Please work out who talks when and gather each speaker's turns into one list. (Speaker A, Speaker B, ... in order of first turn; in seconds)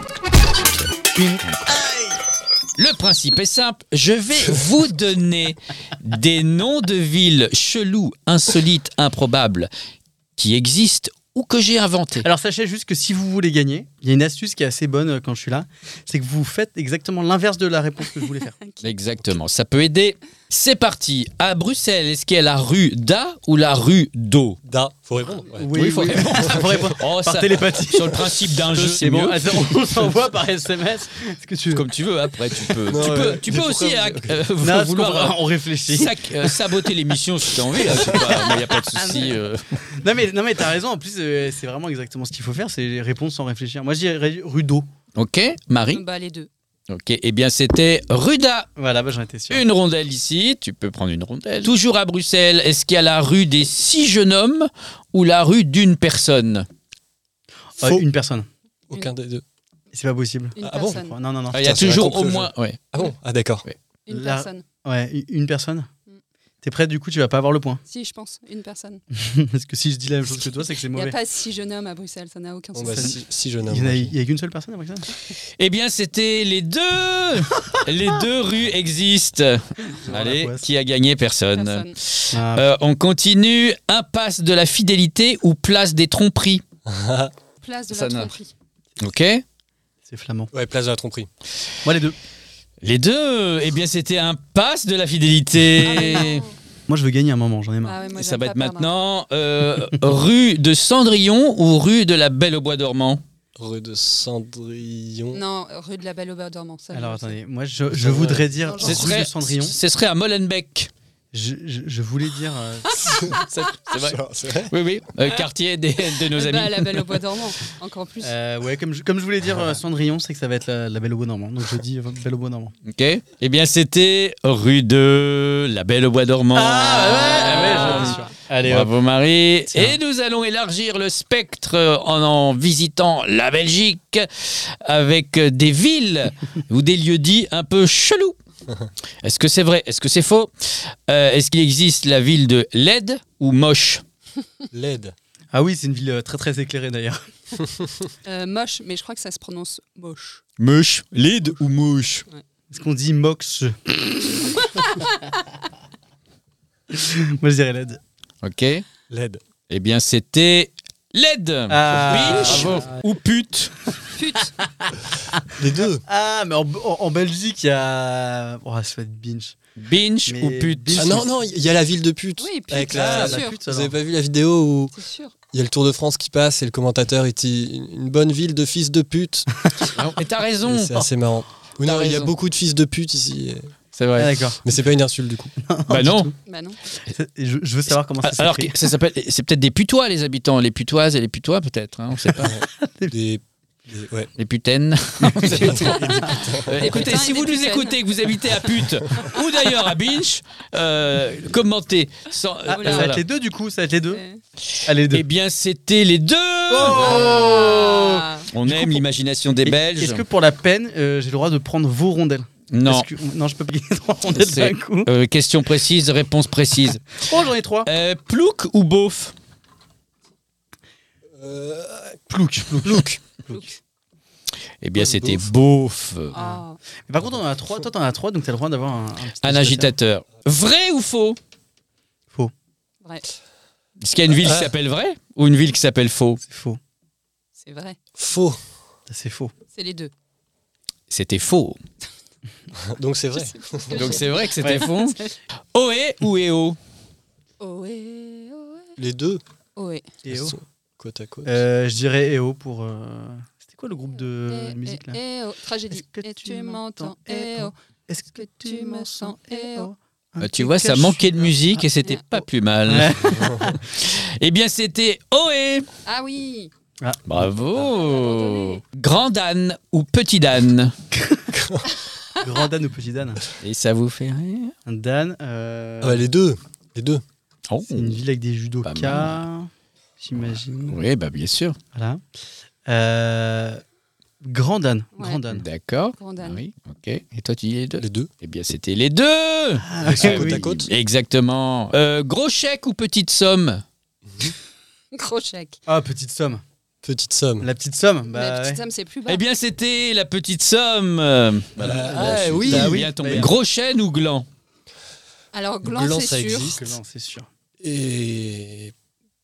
Speaker A: 1.1-1.8, 2.7-9.7, 10.4-12.3, 18.8-24.6, 25.6-29.7, 31.7-39.8, 45.1-46.0, 46.9-48.7, 49.5-56.7, 61.5-62.8, 75.6-86.6, 87.9-88.3, 89.0-89.4, 92.8-96.4, 98.1-103.2, 108.8-110.9, 113.4-117.0, 122.8-138.3, 139.2-144.0, 150.6-152.3, 158.4-158.8, 159.7-163.8, 169.8-171.2, 179.8-181.0, 181.8-182.3, 183.9-184.4, 185.9-186.3, 188.2-192.5, 194.4-203.2, 204.8-207.7, 208.4-210.2, 212.7-213.1, 214.3-217.2, 217.8-219.3, 224.8-226.4, 229.4-231.4, 234.0-236.4, 241.1-241.8, 243.9-246.8, 260.4-263.3, 263.9-265.9, 267.2-270.9, 273.6-274.7, 277.7-278.2, 278.8-279.4, 280.8-281.8, 285.5-293.8, 299.3-304.4
Speaker B: 1.8-2.1, 12.2-18.6, 25.6-31.9, 32.8-33.1, 34.6-36.8, 37.7-39.4, 39.9-44.9, 48.8-49.6, 57.8-58.5, 59.9-61.7, 64.1-65.9, 66.6-67.8, 69.2-71.2, 72.9-75.1, 80.0-80.7, 82.3-82.7, 90.0-90.5, 91.8-92.2, 96.9-98.0, 106.9-109.8, 111.3-113.4, 118.2-122.7, 126.5-128.9, 129.7-130.0, 145.5-147.7, 152.7-155.0, 156.9-158.0, 161.7-162.9, 164.8-169.6, 170.2-171.2, 172.9-173.9, 184.2-184.6, 185.6-186.3, 187.0-188.8, 192.3-193.1, 195.2-196.2, 202.7-204.2, 204.8-205.2, 206.7-209.0, 209.6-215.1, 217.2-217.9, 222.3-223.7, 225.0-225.4, 226.3-229.9, 236.4-236.8, 239.1-239.5, 244.6-244.8, 250.2-250.6, 251.4-255.2, 255.9-261.6, 262.9-263.8, 272.4-273.4, 274.9-276.3, 277.9-281.0, 281.9-282.2, 282.9-283.8, 284.4-285.6, 289.8-290.6, 295.9-296.6, 297.6-298.8, 302.1-303.6, 306.8-307.5
Speaker C: 18.1-18.9, 45.9-46.5, 60.5-61.1, 64.0-64.6, 67.9-69.0, 70.9-73.2, 81.5-81.9, 87.6-88.5, 95.8-96.5, 97.8-98.9, 105.3-107.4, 108.6-109.2, 116.0-118.3, 127.7-128.2, 148.2-150.4, 164.1-164.5, 172.4-173.6, 174.9-175.3, 186.4-186.8, 195.6-198.3, 202.7-203.2, 204.1-204.4, 206.8-208.5, 226.3-226.8, 237.6-238.0, 239.7-240.1, 243.7-244.9, 247.6-249.0, 249.8-250.1, 254.4-257.8, 258.3-259.9, 266.0-266.7, 267.7-268.8, 285.2-285.4, 286.2-286.6, 295.1-295.8, 298.3-299.4, 305.5-306.8
Speaker D: 24.6-25.7, 26.4-26.7, 32.9-34.4, 58.9-59.4, 60.6-61.0, 61.5-63.6, 72.7-74.1, 86.8-87.3, 90.5-91.3, 103.6-105.4, 107.9-108.5, 113.0-114.7, 144.7-145.1, 159.1-159.4, 165.5-166.0, 170.9-174.9, 175.5-179.5, 180.7-183.7, 184.6-185.5, 192.4-194.3, 195.5-197.0, 207.0-207.8, 221.4-222.2, 222.8-223.2, 234.3-234.7, 238.2-238.6, 242.7-244.1, 249.0-249.4, 250.2-251.6, 263.2-263.8, 271.5-271.9, 276.0-277.2, 288.0-288.3, 290.0-290.9, 297.0-297.7, 301.8-303.1, 305.8-307.0, 307.8-308.9